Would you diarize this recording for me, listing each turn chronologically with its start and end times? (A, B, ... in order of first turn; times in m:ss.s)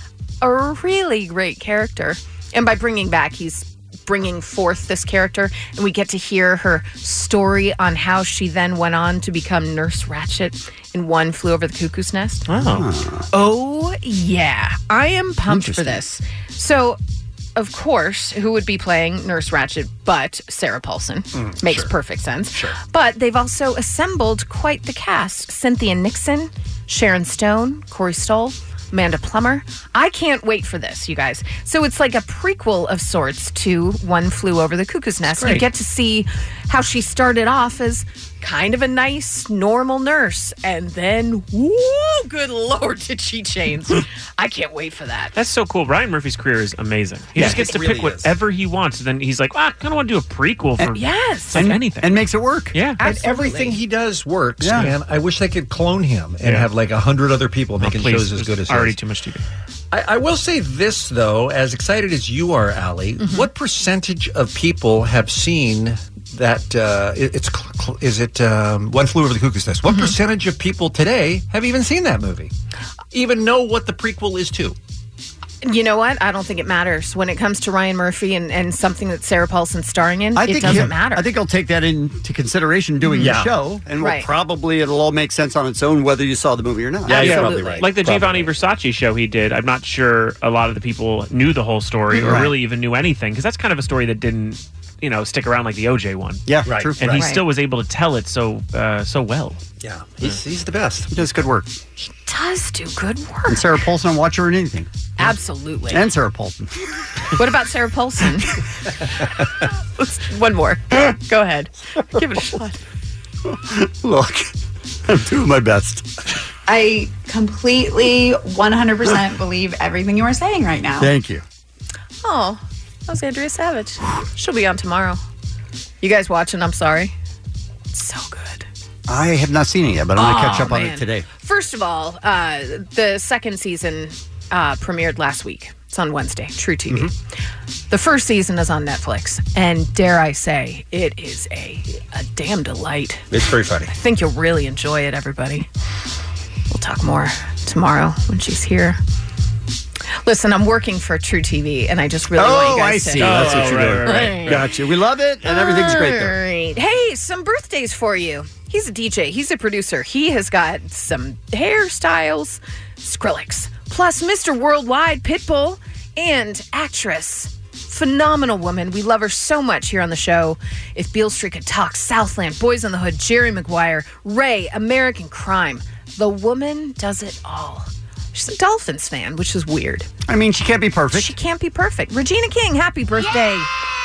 0:00.4-0:12.4 A
0:12.5-0:12.8 B
0:12.6-0:13.2 C
0:13.3-0:17.0 A
0:15.5-0:16.0 C
0:17.6-0:45.3 A
0:21.3-0:21.9 D
0:35.2-0:35.6 B
0:45.3-0:52.2 B
0:47.4-0:48.3 D
0:50.8-0:51.7 A
0:51.5-0:52.8 C
0:52.7-0:53.0 B
0:53.0-0:53.8 A
0:53.0-0:59.0 D
0:54.6-0:54.9 C
0:56.4-0:56.7 B
0:57.8-0:59.4 B
0:59.9-1:12.5 D
1:03.2-1:03.5 A
1:13.1-1:14.8 D
1:15.6-1:21.3 A
1:20.4-1:27.8 C
1:20.6-1:20.9 D
1:23.0-1:23.3 A
1:23.2-1:23.5 D
1:24.0-1:24.3 A
1:27.1-1:28.5 D
1:27.2-1:27.8 A
1:27.2-1:36.4 B
1:32.2-1:32.5 C
1:36.4-1:37.2 C
1:36.7-1:36.9 D
1:37.0-1:39.6 B
1:37.1-1:37.4 A
1:39.8-1:41.1 D
1:41.1-1:41.7 C
1:42.0-1:43.8 A
1:43.5-1:45.3 C
1:45.2-1:46.0 A
1:45.9-1:46.7 C
1:47.3-1:48.5 A
1:50.0-1:52.8 A
1:53.5-1:54.5 C
1:55.0-1:56.1 C
1:56.7-2:01.1 E
2:01.0-2:01.4 C
2:02.2-2:05.2 A
2:06.0-2:07.1 A
2:07.9-2:08.7 A
2:09.1-2:11.2 C
2:10.2-2:17.1 A
2:17.9-2:23.2 A
2:23.3-2:23.9 D
2:23.9-2:25.7 A
2:26.7-2:29.0 A
2:30.2-2:34.6 A
2:32.3-2:36.4 C
2:33.2-2:34.6 B
2:35.4-3:00.1 A
3:00.3-3:01.3 C
3:01.1-3:03.7 A